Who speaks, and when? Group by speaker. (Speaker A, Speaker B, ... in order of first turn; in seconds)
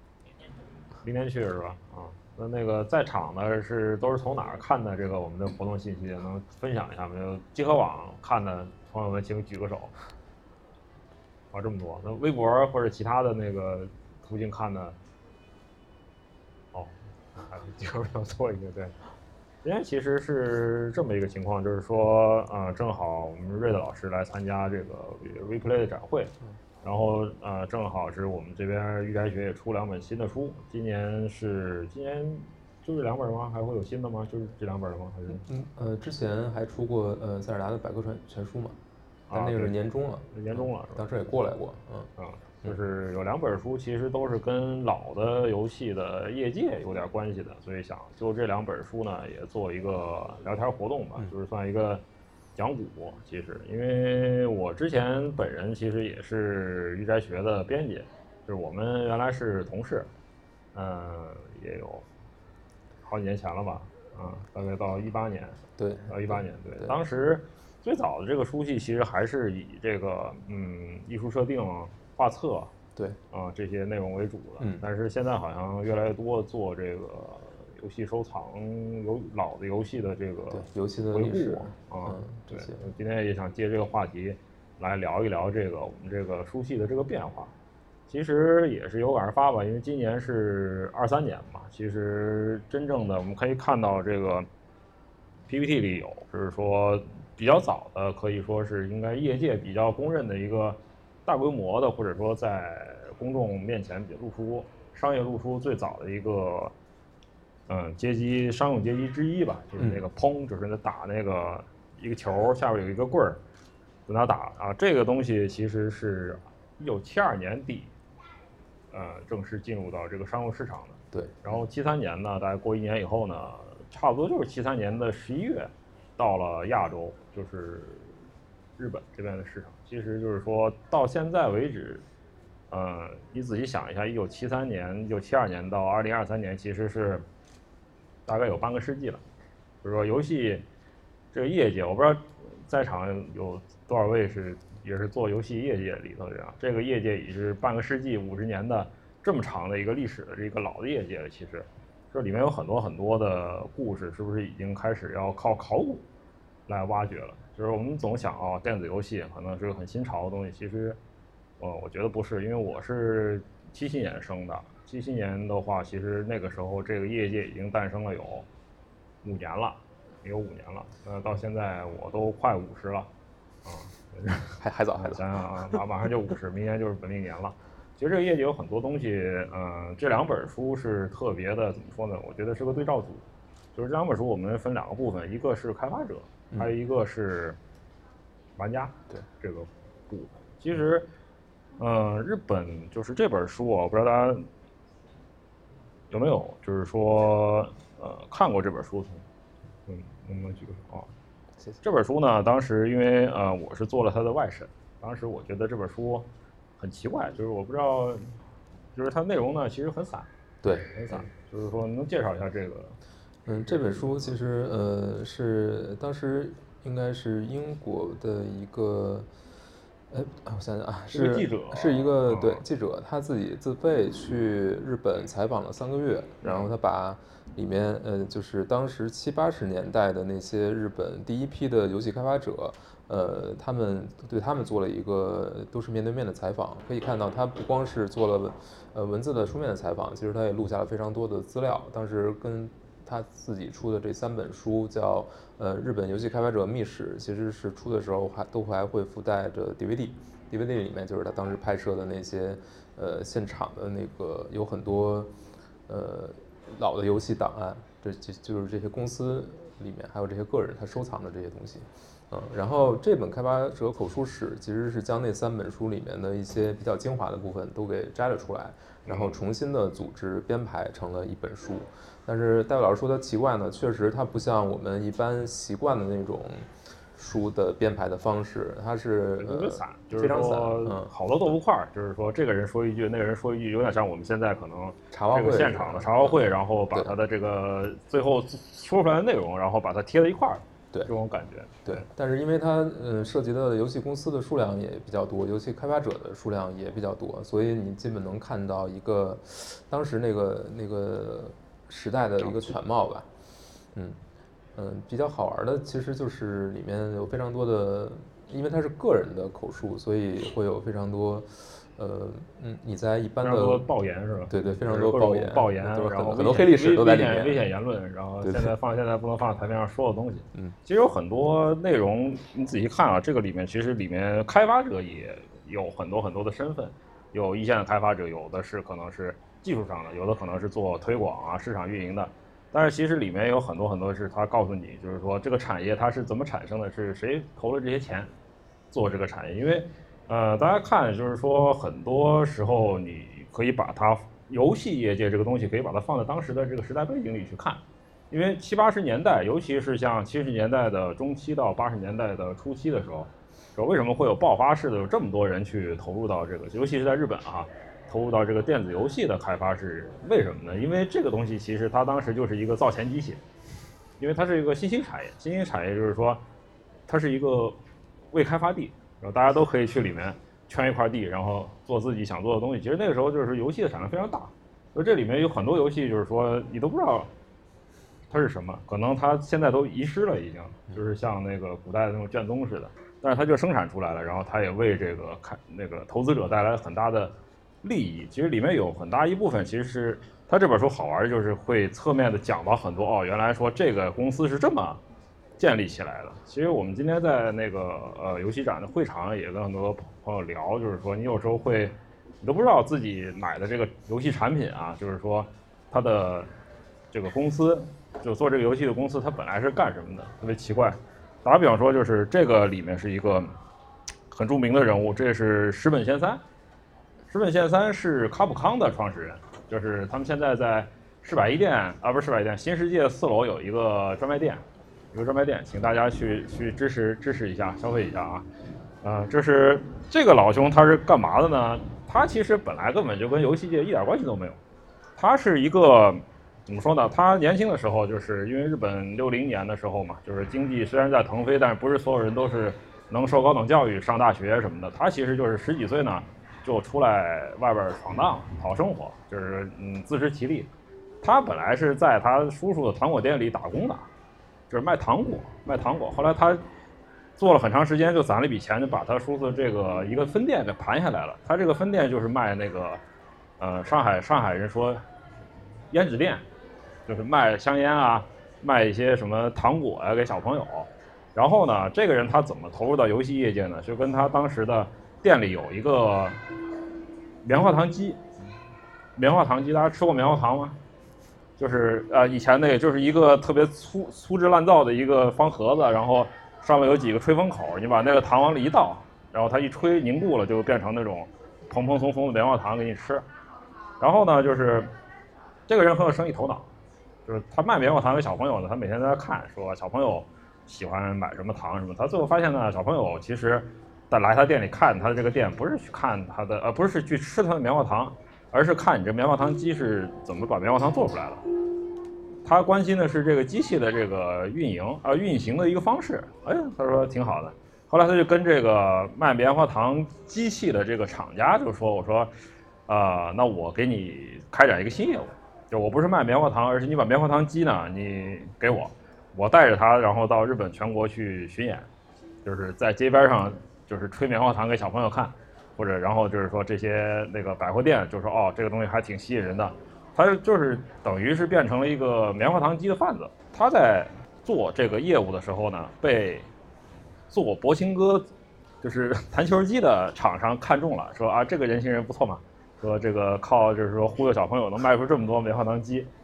Speaker A: 1.0-9.9, 11.5-15.0, 17.4-18.9, 19.6-35.4, 39.3-39.8, 40.3-41.1, 42.2-52.0, 52.5-60.1, 60.7-62.0, 63.0-72.7, 73.3-87.5, 88.1-94.5, 95.5-106.7, 107.7-113.4, 114.1-117.9, 118.9-128.1, 128.8-132.0, 132.7-137.2, 138.3-139.2, 139.8-140.6, 141.3-156.0, 156.7-161.0, 161.6-168.5, 169.2-173.1, 173.6-187.6, 188.6-191.1, 191.8-194.5, 196.1-199.2, 199.9-201.1, 201.8-206.3, 206.8-208.3, 208.9-210.3, 210.9-213.0, 221.1-222.6, 226.4-226.7, 269.0-269.4, 279.4-292.1, 313.4-338.3, 338.9-363.4, 364.2-366.4, 367.1-367.8, 368.3-377.3, 378.3-395.0, 395.6-406.5, 407.1-413.5, 414.3-416.4, 417.3-428.5, 429.0-434.6, 435.2-450.7, 451.2-454.1, 454.7-456.6, 457.4-463.0, 463.6-465.0, 465.9-466.4, 467.1-476.4, 477.4-478.2, 479.1-480.8, 481.6-493.2, 494.0-494.9, 495.7-496.7, 497.2-511.4, 512.4-522.3, 522.9-531.9, 532.4-546.5, 547.3-548.3, 548.8-556.1
Speaker B: 35.4-38.8, 39.3-42.1, 65.8-66.9, 80.5-82.8, 109.8-110.0, 121.1-121.4, 174.6-175.2, 210.6-211.2, 213.4-219.3, 220.1-255.3, 255.9-281.1, 285.1-287.1, 291.9-303.3, 303.9-304.2, 304.7-313.8, 314.5-317.6, 318.4-318.7